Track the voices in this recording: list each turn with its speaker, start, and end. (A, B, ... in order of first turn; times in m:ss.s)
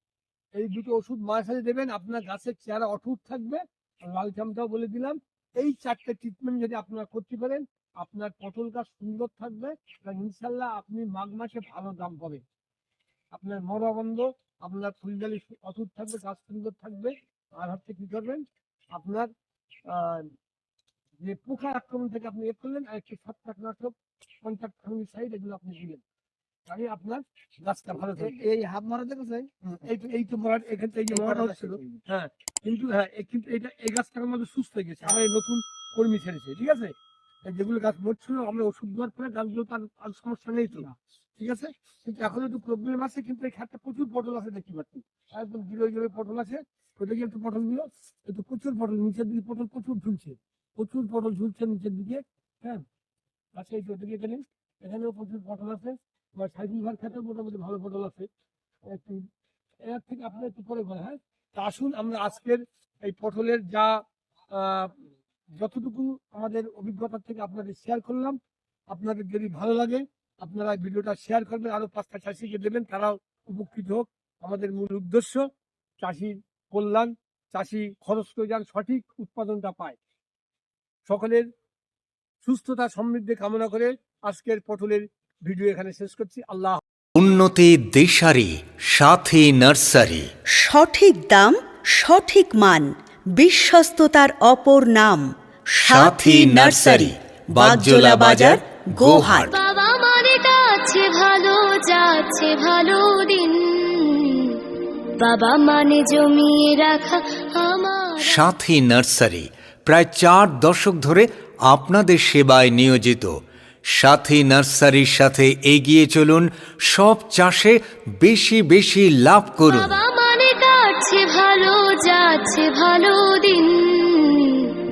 0:00.6-0:12.4 A
0:13.3-0:19.3 A
0:19.9-0:20.3 A
0:21.2-0:26.0 A
0:26.7-0:28.4 A
0:28.0-0:29.8 B
0:29.7-0:36.9 A
0:31.1-0:32.0 B
0:37.5-0:52.8 A
0:53.6-0:58.3 A
0:58.9-0:59.3 A
0:59.9-1:04.0 A
1:04.5-1:08.4 A
1:08.9-1:15.5 A
1:16.0-1:20.0 A
1:21.1-1:21.5 A
1:22.4-1:26.8 A
1:27.2-1:30.3 C
1:30.6-1:39.5 D
1:35.8-1:39.5 C
1:39.4-1:44.6 E
1:45.2-1:48.6 E
1:48.2-1:53.3 C
1:53.9-2:00.0 C
1:59.7-2:04.7 E